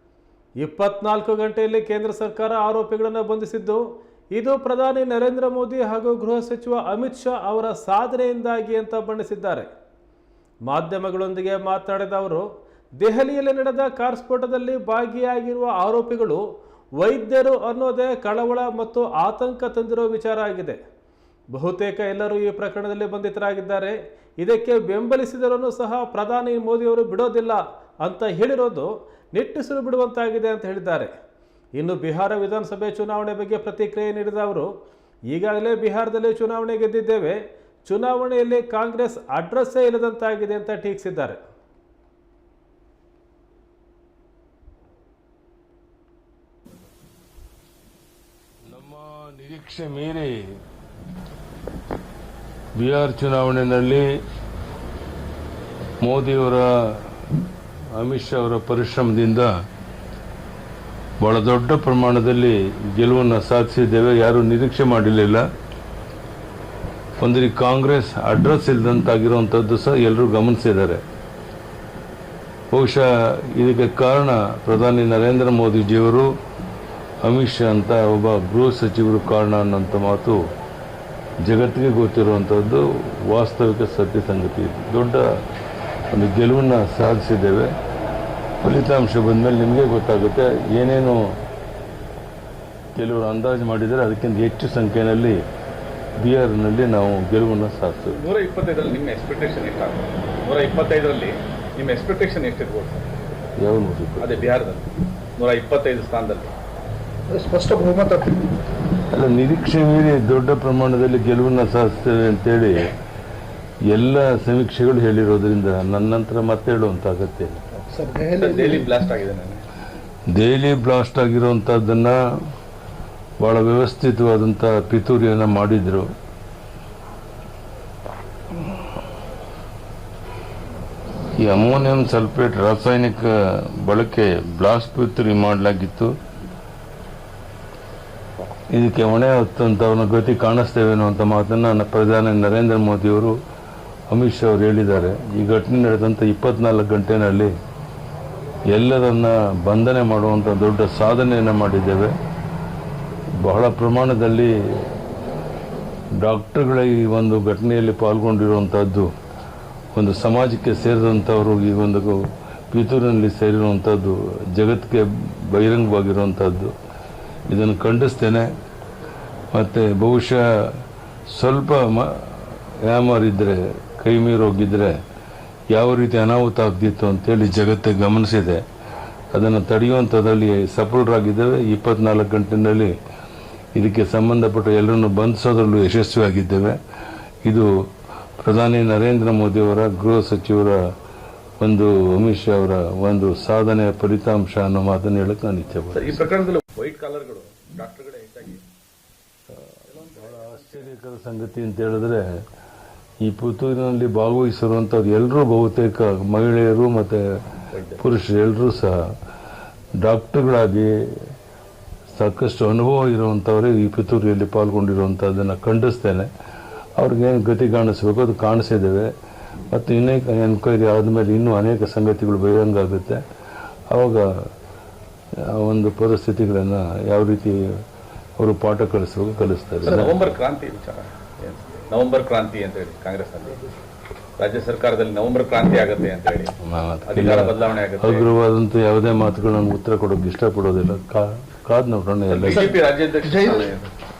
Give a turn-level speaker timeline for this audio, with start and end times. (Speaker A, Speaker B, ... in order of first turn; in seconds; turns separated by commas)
Speaker A: 0.6-3.8, Speaker A: 4.3-9.7, Speaker A: 10.7-12.5, Speaker A: 13.0-16.4, Speaker A: 17.0-20.8, Speaker A: 21.5-31.1, Speaker A: 31.8-34.7, Speaker A: 35.3-41.4, Speaker B: 48.6-50.6, Speaker B: 52.8-54.2, Speaker B: 56.0-59.5, Speaker B: 61.2-65.4, Speaker B: 67.2-71.0, Speaker B: 72.7-76.3, Speaker B: 77.2-80.4, Speaker B: 81.4-85.2, Speaker B: 86.1-87.7, Speaker B: 88.6-91.3, Speaker B: 92.9-95.4, Speaker B: 96.2-98.2, Speaker C: 98.1-103.2, Speaker B: 103.6-104.3, Speaker C: 104.2-106.5, Speaker D: 107.3-108.4, Speaker B: 109.1-112.9, Speaker B: 113.9-117.6, Speaker D: 117.7-118.9, Speaker C: 118.3-119.6, Speaker B: 120.3-122.2, Speaker B: 123.4-126.1, Speaker B: 131.4-136.1, Speaker B: 138.7-143.3, Speaker B: 144.1-147.5, Speaker B: 148.7-152.1, Speaker B: 153.4-154.8, Speaker B: 156.2-159.1, Speaker B: 159.9-166.7, Speaker B: 167.5-168.5, Speaker B: 169.5-175.0, Speaker B: 175.7-178.6, Speaker B: 179.3-182.9, Speaker B: 183.7-186.8, Speaker B: 188.4-190.8, Speaker B: 191.6-196.2, Speaker C: 195.9-198.6, Speaker C: 199.9-200.9, Speaker B: 200.1-202.4, Speaker B: 203.2-207.2, Speaker C: 207.7-208.0, Speaker B: 208.0-209.1, Speaker B: 210.0-211.3, Speaker B: 212.1-216.3, Speaker B: 217.0-219.1, Speaker B: 219.7-223.2, Speaker B: 223.9-224.3, Speaker B: 225.4-227.8, Speaker B: 228.4-230.1, Speaker C: 229.8-233.6, Speaker C: 234.4-236.5, Speaker B: 236.6-242.8, Speaker C: 237.1-238.3, Speaker C: 242.3-243.9, Speaker D: 243.2-243.7